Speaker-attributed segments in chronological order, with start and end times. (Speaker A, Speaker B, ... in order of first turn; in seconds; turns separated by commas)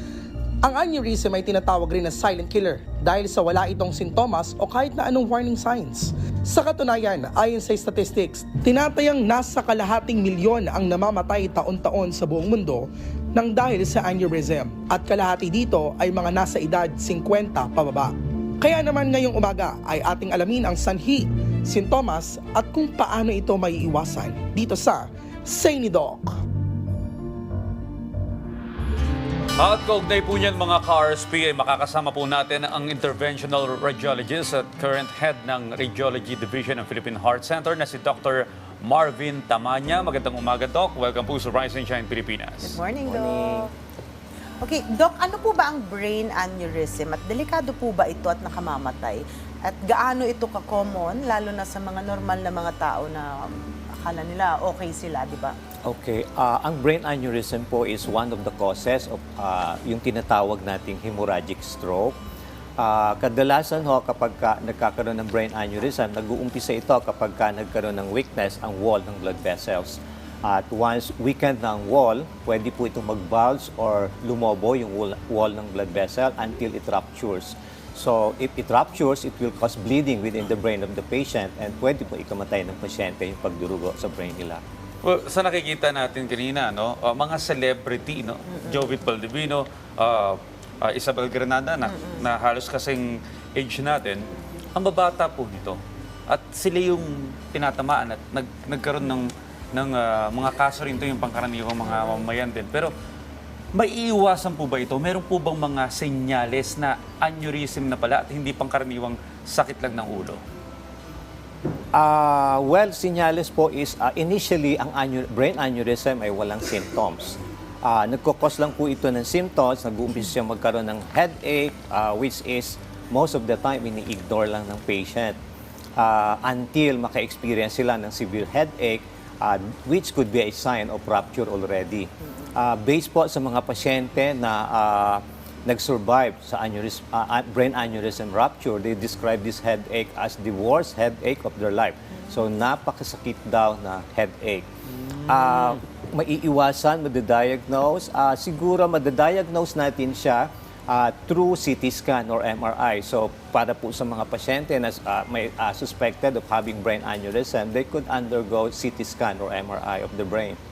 Speaker A: 0.6-26.3, Speaker B: 29.6-42.8, Speaker C: 42.6-43.7, Speaker D: 43.0-43.7, Speaker C: 44.6-55.5, Speaker D: 55.9-62.2, Speaker D: 62.8-84.6, Speaker B: 85.0-102.9, Speaker C: 88.5-88.9, Speaker C: 91.8-92.2, Speaker C: 101.8-102.2, Speaker B: 103.7-110.4, Speaker D: 111.9-125.4, Speaker D: 126.0-144.7, Speaker B: 145.0-145.8, Speaker D: 145.2-160.6